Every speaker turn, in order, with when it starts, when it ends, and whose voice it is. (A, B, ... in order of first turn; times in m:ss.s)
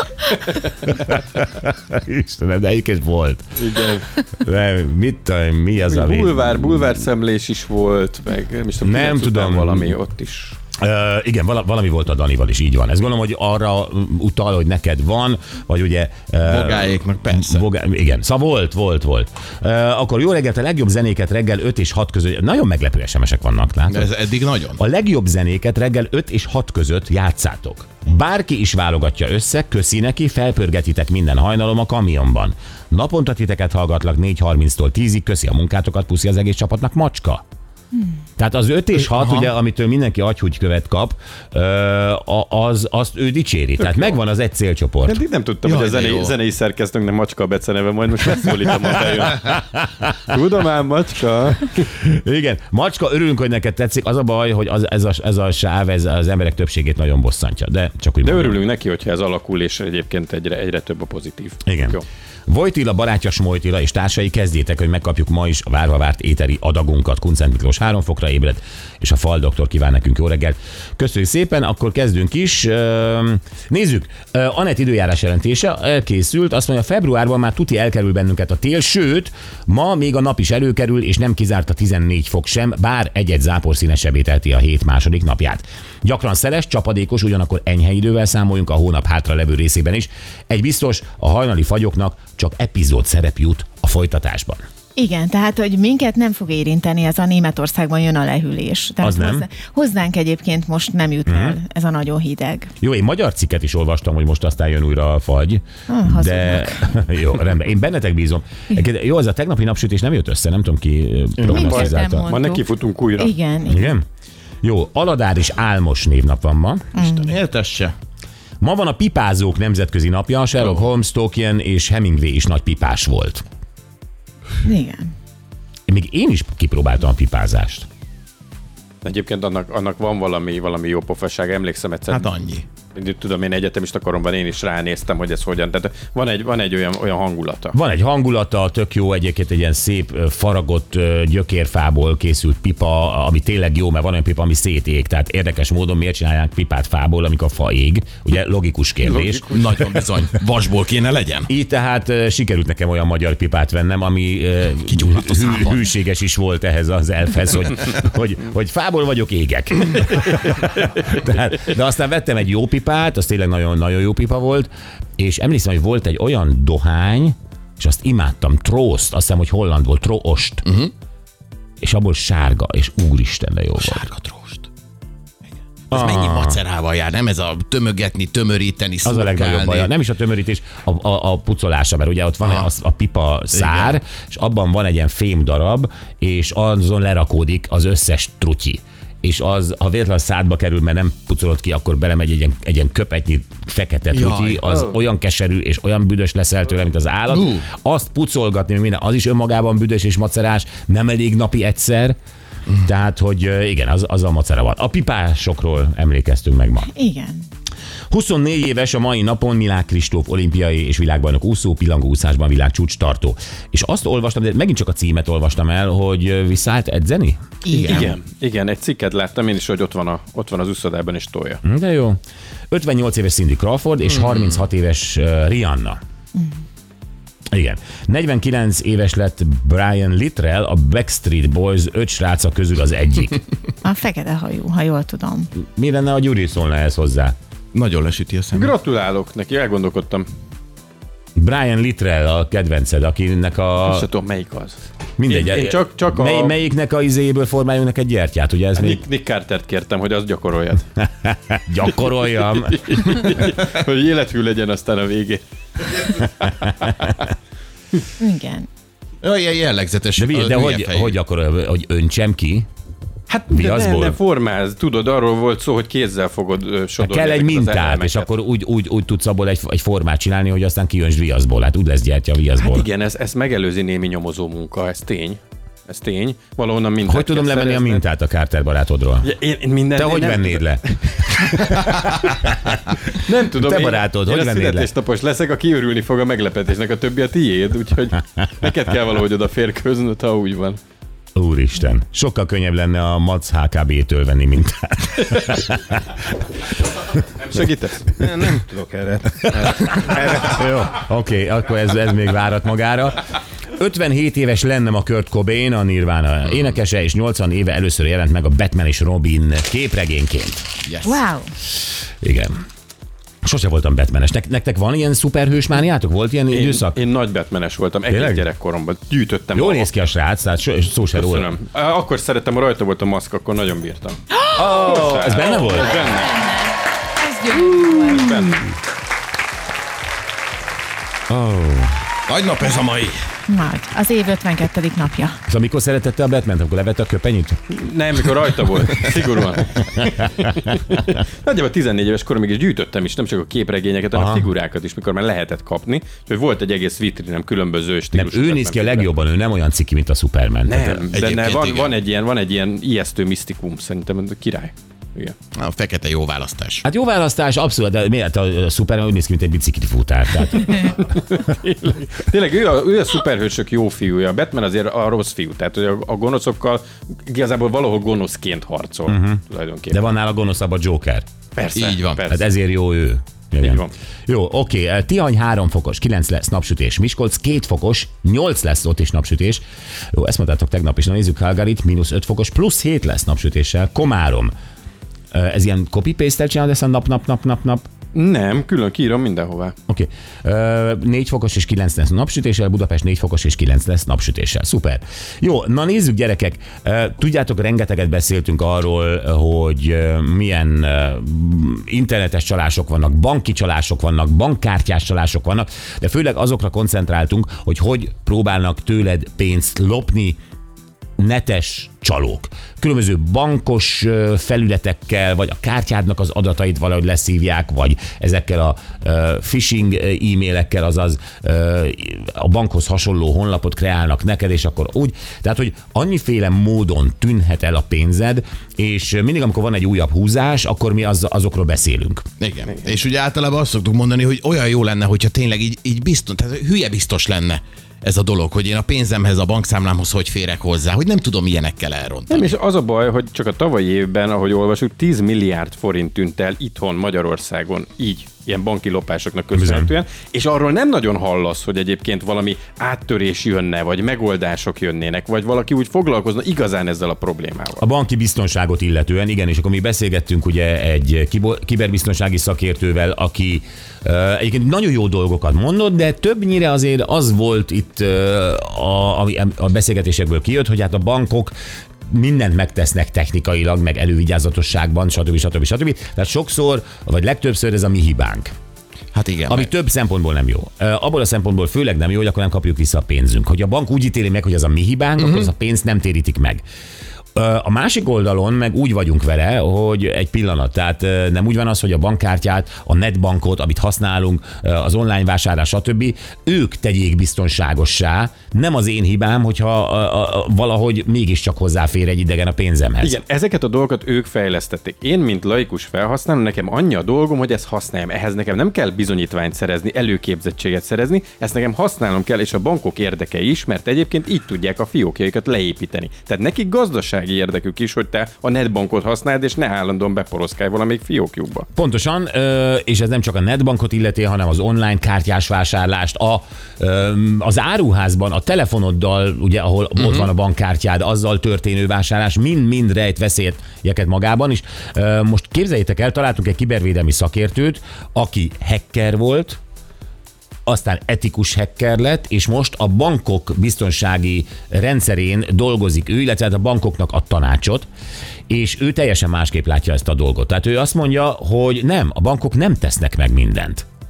0:00.8-0:03.6 A
0:03.6-0:04.1 B
0:04.3-0:06.8 A
0:05.9-0:10.6 B
0:08.8-0:09.9 A
0:10.8-0:24.1 A
0:16.4-0:17.6 C
0:23.9-0:24.8 C
0:24.8-0:37.4 A
0:38.4-0:45.2 A
0:39.2-0:39.5 C
0:45.0-0:49.6 B
0:45.6-0:46.3 C
0:50.2-0:51.8 B
0:51.8-0:58.6 A
0:58.2-1:02.0 B
1:01.6-1:34.6 A
1:35.0-1:42.7 D
1:39.0-1:39.4 A
1:41.3-1:41.6 A
1:42.8-1:52.3 A
1:45.9-1:46.9 D
1:51.4-1:51.7 C
1:51.5-1:52.6 D
1:51.5-1:53.3 B
1:53.2-1:54.0 D
1:53.7-1:54.0 A
1:54.6-1:57.2 A
1:56.9-1:57.3 D
1:57.2-1:57.9 C
1:58.6-2:03.4 A
2:04.6-2:05.1 D
2:05.9-2:07.9 A
2:09.0-2:12.3 B
2:12.1-2:12.6 C
2:12.9-2:17.7 B
2:17.7-2:29.6 A
2:29.0-2:29.7 B
2:29.5-2:31.5 C
2:31.5-2:50.6 A
2:34.9-2:35.8 C
2:50.6-2:50.9 C
2:51.8-2:54.1 A
2:53.8-2:54.7 C
2:55.9-2:59.9 C
2:55.9-2:56.6 A
2:59.0-3:22.2 A
3:03.5-3:03.9 C
3:14.1-3:14.8 C
3:17.3-3:17.6 C
3:22.8-3:26.9 A
3:26.9-3:27.4 D
3:28.1-3:37.5 A
3:37.6-3:38.2 C
3:37.8-3:41.6 B
3:41.6-3:46.0 A
3:44.2-3:44.5 C
3:47.5-3:53.4 A
3:53.8-3:55.5 D
3:55.6-3:57.3 A
3:57.7-3:58.7 C
3:58.5-4:00.3 B
4:01.4-4:04.1 A
4:03.8-4:06.5 B
4:05.2-4:09.0 A
4:08.8-4:10.9 B
4:11.0-4:13.4 A
4:12.5-4:17.1 B
4:18.2-4:18.7 D
4:19.2-4:21.1 C
4:20.2-4:22.7 A
4:23.3-4:28.3 B
4:23.5-4:24.2 A
4:27.0-4:32.8 A
4:32.6-4:38.0 B
4:37.0-4:39.3 A
4:39.2-4:42.4 B
4:39.9-4:43.0 A
4:43.1-4:50.8 B
4:43.5-4:44.9 A
4:51.3-4:56.0 A
4:57.4-4:58.2 B
4:58.2-5:00.6 E
4:59.5-5:10.7 A
5:10.8-5:11.2 C
5:11.0-5:11.5 D
5:12.2-5:12.6 A
5:13.4-5:17.0 A
5:16.5-5:19.9 B
5:18.1-5:18.4 A
5:19.5-5:21.5 A
5:21.2-5:26.4 B
5:24.5-5:26.0 A
5:26.0-5:28.4 D
5:27.9-5:28.6 B
5:31.3-5:32.0 A
5:32.3-5:33.2 C
5:33.5-5:35.4 D
5:35.5-5:37.6 A
5:37.7-5:49.1 B
5:40.0-5:40.7 A
5:44.1-5:44.5 A
5:48.1-5:51.0 A
5:50.6-5:55.3 B
5:51.1-5:51.9 C
5:55.6-5:56.8 C
5:56.8-6:01.0 A
6:01.0-6:10.1 B
6:09.1-6:11.2 A
6:11.6-6:12.5 B
6:11.7-6:12.2 C
6:12.3-6:24.5 A
6:13.6-6:13.9 B
6:25.3-6:27.9 A
6:28.1-6:29.7 B
6:29.9-6:50.4 A
6:51.2-7:12.2 A
7:12.4-7:22.5 C
7:22.3-7:37.8 B
7:29.5-7:29.9 A
7:37.8-7:51.5 A
7:52.1-7:58.5 A
7:59.1-7:59.7 C
7:59.5-8:06.6 A
8:05.2-8:05.5 C
8:07.3-8:23.2 A
8:23.0-8:41.7 B
8:41.8-8:59.6 A
8:50.0-8:50.3 C
9:00.6-9:07.9 A
9:08.5-9:13.8 A